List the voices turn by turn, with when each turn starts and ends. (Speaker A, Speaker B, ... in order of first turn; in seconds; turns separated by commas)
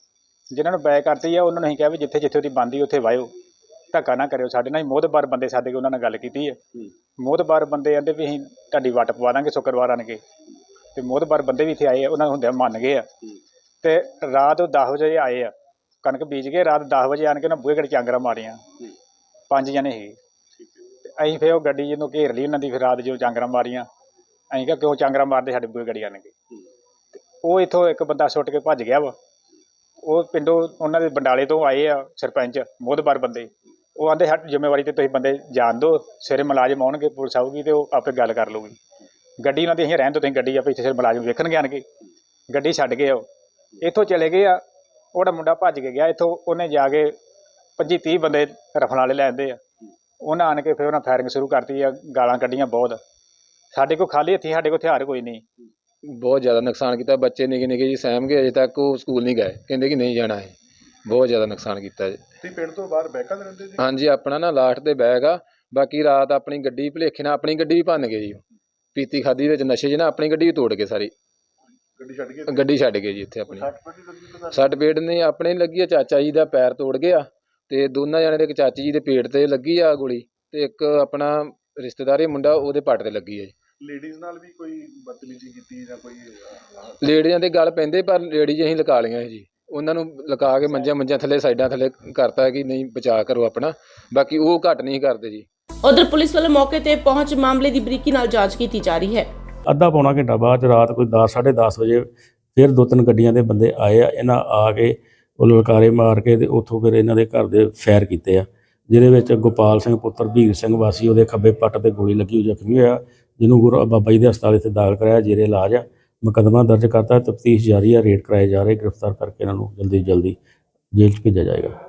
Speaker A: 0.5-3.3, Speaker A: 3.9-6.6, Speaker A: 7.2-10.2, Speaker A: 10.9-13.1, Speaker A: 13.8-15.5, Speaker A: 16.0-18.6, Speaker A: 19.5-20.2, Speaker A: 21.1-23.9, Speaker A: 24.5-26.3, Speaker A: 27.4-29.1, Speaker A: 30.0-38.8, Speaker A: 39.4-41.9, Speaker A: 42.5-43.2, Speaker A: 43.8-44.6, Speaker A: 45.1-47.1, Speaker A: 47.8-49.6, Speaker A: 50.2-53.0, Speaker A: 53.7-55.4, Speaker B: 56.1-60.5, Speaker B: 61.1-62.2, Speaker C: 62.4-63.9, Speaker B: 63.8-68.4, Speaker B: 69.0-71.1, Speaker C: 72.0-72.6, Speaker B: 72.5-73.7, Speaker C: 73.6-74.7, Speaker B: 74.5-83.5, Speaker C: 83.9-86.4, Speaker B: 87.0-95.5, Speaker D: 95.8-99.3, Speaker E: 99.7-120.4, Speaker E: 121.0-121.8